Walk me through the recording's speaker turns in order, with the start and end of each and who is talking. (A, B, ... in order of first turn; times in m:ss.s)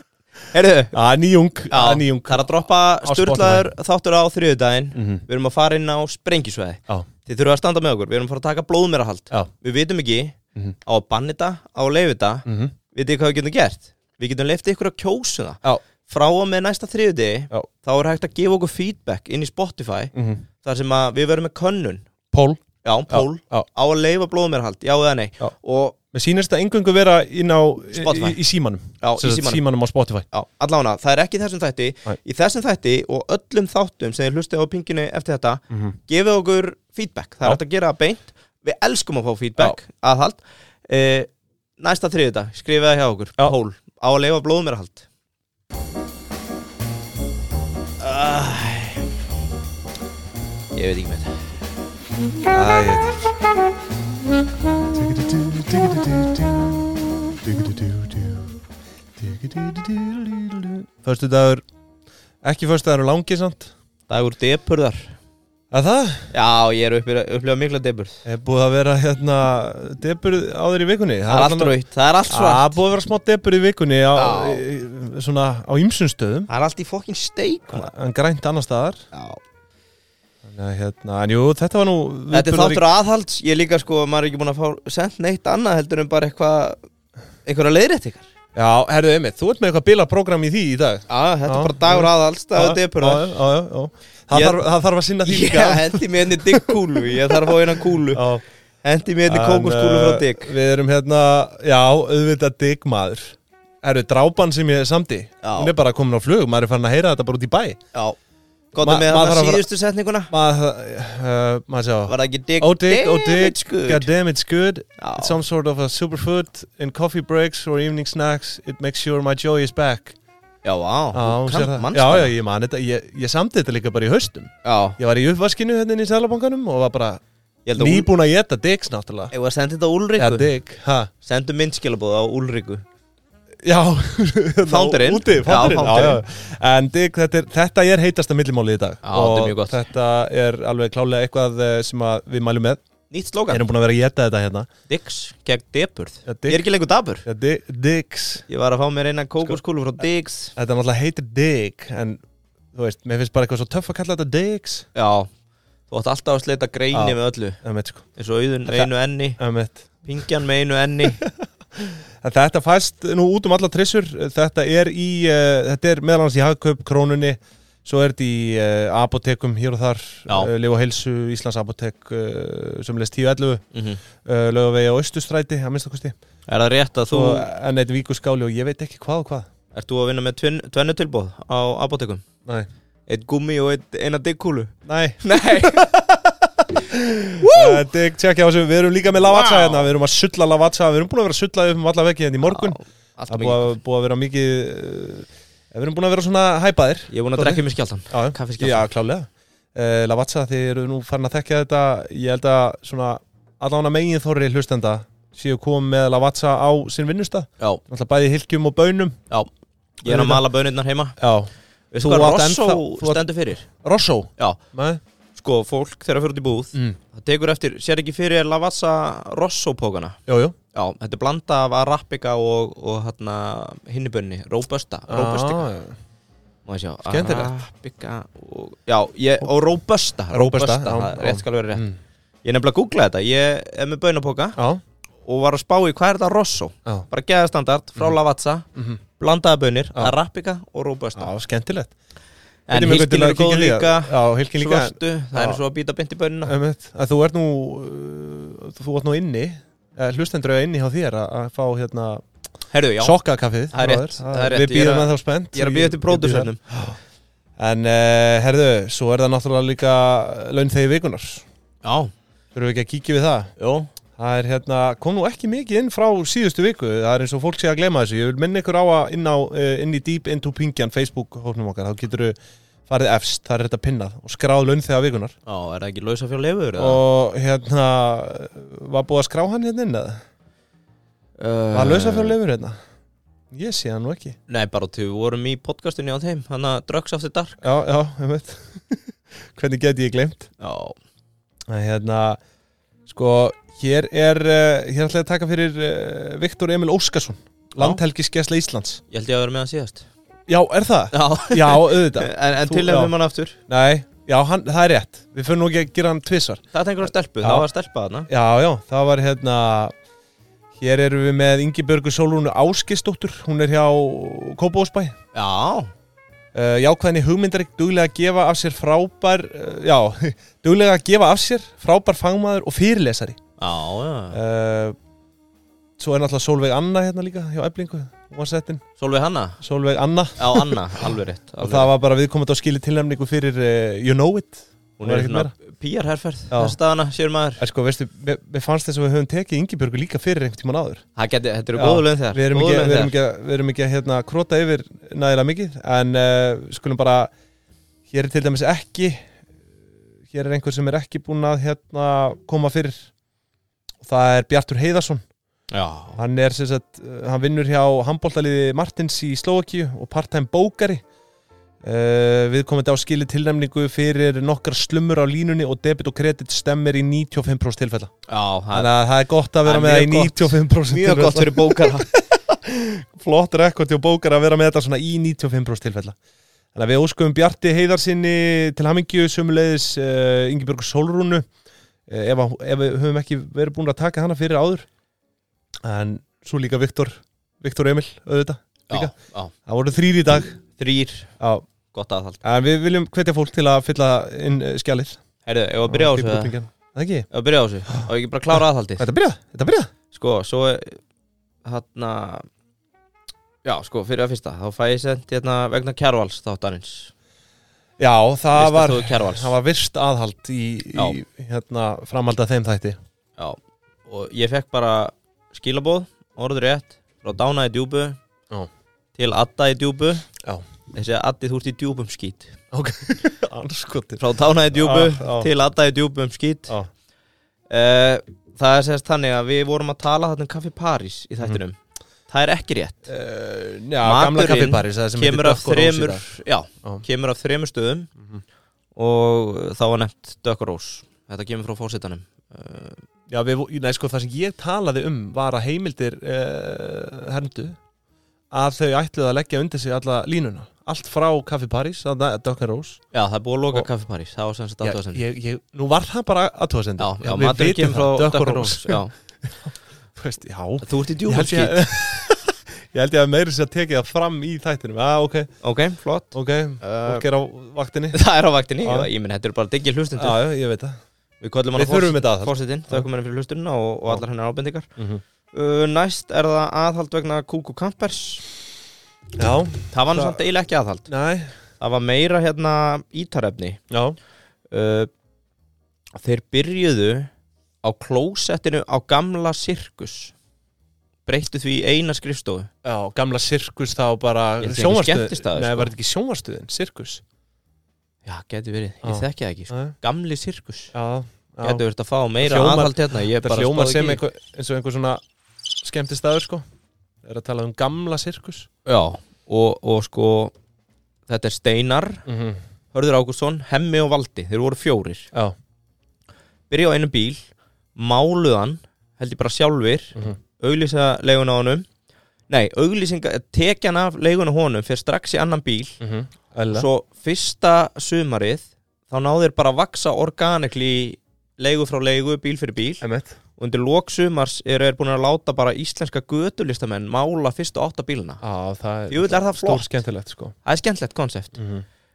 0:00.5-0:01.0 A
0:00.9-0:03.7 B
0:01.7-0:22.1 A
0:04.9-0:05.2 B
0:12.4-0:12.7 B
0:20.1-0:20.4 B
0:22.3-0:23.7 B
0:22.8-0:26.0 A
0:26.1-0:30.2 B
0:27.9-0:28.4 A
0:29.0-0:29.6 A
0:30.3-0:45.0 A
0:35.7-0:36.0 B
0:48.0-0:49.1 A
0:50.7-0:51.4 A
0:52.4-0:53.3 B
0:54.9-0:58.6 B
0:59.2-1:01.6 B
1:02.4-1:03.7 B
1:04.1-1:05.1 A
1:05.7-1:06.3 B
1:06.3-1:08.2 A
1:08.2-1:11.7 B
1:11.3-1:12.8 A
1:12.3-1:16.5 B
1:14.2-1:14.6 A
1:16.5-1:17.9 A
1:17.7-1:19.0 B
1:19.1-1:19.4 A
1:20.4-1:22.8 B
1:22.3-1:26.8 A
1:27.4-1:28.3 A
1:28.5-1:38.4 B
1:31.1-1:33.4 A
1:34.3-1:34.6 A
1:35.2-1:38.2 A
1:38.8-1:40.5 A
1:39.3-1:47.8 B
1:45.4-1:45.7 A
1:48.7-1:50.3 A
1:48.8-1:49.6 B
1:50.3-2:00.2 B
1:52.1-1:54.1 A
1:55.0-1:55.4 A
2:00.6-2:02.3 A
2:01.1-2:07.2 B
2:04.6-2:05.0 A
2:07.6-2:08.1 A
2:07.8-2:09.3 B
2:09.3-2:10.5 A
2:10.2-2:11.1 B
2:11.2-2:12.8 A
2:13.6-2:22.8 B
2:14.6-2:16.2 A
2:19.0-2:19.8 A
2:23.1-2:23.6 A
2:23.5-2:24.7 B
2:24.9-2:27.2 A
2:26.2-2:26.6 B
2:27.2-2:28.4 B
2:28.5-2:30.5 A
2:30.6-2:32.2 B
2:32.7-2:34.9 B
2:34.9-2:35.3 A
2:35.9-2:37.6 A
2:36.9-2:38.1 B
2:38.1-2:39.4 A
2:38.7-2:40.2 B
2:40.0-2:41.2 A
2:41.2-2:53.6 B
2:53.7-2:54.0 A
2:54.2-2:56.1 B
2:56.5-2:57.5 A
2:57.1-2:59.5 B
2:59.7-3:02.2 A
3:03.1-3:05.9 A
3:04.8-3:12.8 B
3:07.4-3:07.8 A
3:09.2-3:09.9 A
3:12.4-3:13.7 A
3:13.3-3:29.2 B
3:17.1-3:18.9 A
3:30.0-3:31.2 A
3:30.0-3:30.4 B
3:31.2-3:35.0 B
3:31.9-3:33.6 A
3:35.4-3:40.2 A
3:40.3-3:40.6 B
3:40.7-3:45.6 A
3:45.1-3:46.0 B
3:46.6-3:51.8 A
3:47.1-3:47.5 B
3:50.3-3:52.0 B
3:52.4-3:54.6 A
3:54.6-3:54.8 B
3:55.2-3:58.6 A
3:58.7-3:59.0 B
3:59.2-4:01.3 A
4:01.2-4:01.9 B
4:02.7-4:06.5 A
4:02.7-4:05.6 B
4:06.4-4:12.2 B
4:12.7-4:13.2 A
4:13.0-4:17.0 B
4:13.7-4:16.6 A
4:17.6-4:21.4 B
4:21.8-4:22.1 A
4:22.5-4:23.5 B
4:23.6-4:23.9 A
4:24.2-4:32.4 B
4:32.9-4:35.3 B
4:35.4-4:37.0 A
4:36.8-4:40.2 B
4:41.4-4:42.4 A
4:41.7-4:42.8 B
4:43.5-4:44.4 B
4:44.5-4:47.6 A
4:47.6-4:50.5 B
4:50.6-4:51.0 A
4:51.7-4:52.4 B
4:53.1-4:59.0 B
4:59.1-5:00.1 A
5:00.5-5:03.1 B
5:01.1-5:03.6 A
5:03.7-5:07.6 B
5:06.7-5:08.3 A
5:08.3-5:09.9 B
5:10.8-5:15.1 B
5:15.3-5:15.9 A
5:16.5-5:23.4 B
5:23.6-5:24.4 A
5:24.3-5:25.0 B
5:26.0-5:28.8 B
5:29.0-5:29.6 A
5:29.6-5:35.5 B
5:30.4-5:31.9 A
5:35.0-5:37.6 A
5:36.5-5:36.8 B
5:37.6-5:41.0 B
5:41.2-5:43.2 A
5:41.7-5:47.3 B
5:48.1-5:49.2 B
5:50.3-5:53.1 B
5:54.0-5:55.2 B
5:55.7-5:56.2 A
5:56.2-6:01.0 B
6:01.8-6:08.1 B
6:08.3-6:08.9 A
6:08.7-6:16.2 B
6:09.6-6:12.1 A
6:16.7-6:21.4 B
6:22.1-6:24.8 B
6:25.8-6:29.1 B
6:28.9-6:29.5 A
6:29.6-6:30.6 B
6:30.8-6:31.3 A
6:31.4-6:31.6 B
6:31.9-6:32.4 A
6:32.4-6:35.2 B
6:35.4-6:36.5 A
6:35.9-6:37.3 B
6:37.3-6:39.1 A
6:37.9-6:39.9 B
6:40.1-6:41.0 A
6:41.6-6:42.4 A
6:43.6-6:47.1 A
6:48.0-6:53.0 B
6:48.5-6:49.5 A
6:53.4-6:58.2 A
6:59.2-7:00.3 A
7:00.9-7:02.6 A
7:02.7-7:04.2 B
7:04.2-7:06.8 A
7:04.7-7:05.5 B
7:07.7-7:11.8 A
7:12.3-7:13.0 A
7:13.1-7:16.2 B
7:14.0-7:18.1 A
7:19.0-7:23.0 A
7:23.3-7:27.8 B
7:28.5-7:33.0 B
7:33.1-7:35.2 A
7:34.8-7:45.5 B
7:37.0-7:39.1 A
7:40.8-7:41.9 A
7:45.6-7:47.2 A
7:46.3-7:48.2 B
7:48.1-7:50.4 A
7:48.8-7:49.1 B
7:50.2-7:50.9 B
7:51.4-7:54.9 A
7:51.8-7:53.1 B
7:55.0-7:55.2 B
7:55.5-7:58.5 A
7:59.4-8:00.4 B
7:59.9-8:01.1 A
8:01.1-8:01.5 B
8:01.8-8:03.8 A
8:03.9-8:04.2 B
8:04.7-8:05.1 A
8:06.2-8:07.3 A
8:07.8-8:10.3 A
8:11.2-8:12.7 A
8:12.8-8:17.2 B
8:14.6-8:15.9 A
8:18.2-8:20.9 A
8:19.0-8:19.9 B
8:20.9-8:21.8 B
8:21.6-8:24.2 A
8:22.4-8:25.2 B
8:25.8-8:26.6 B
8:27.2-8:28.7 B
8:28.8-8:30.5 A
8:31.3-8:32.2 A
8:32.2-8:32.6 B
8:32.9-8:35.3 A
8:36.7-8:37.4 A
8:38.0-8:41.8 A
8:42.5-8:46.0 A
8:46.0-8:46.9 B
8:46.7-8:53.0 A
8:53.0-8:53.3 B
8:53.6-8:58.4 A
8:58.4-9:00.5 B
8:59.1-8:59.9 A
9:00.6-9:01.6 A
9:01.6-9:01.8 B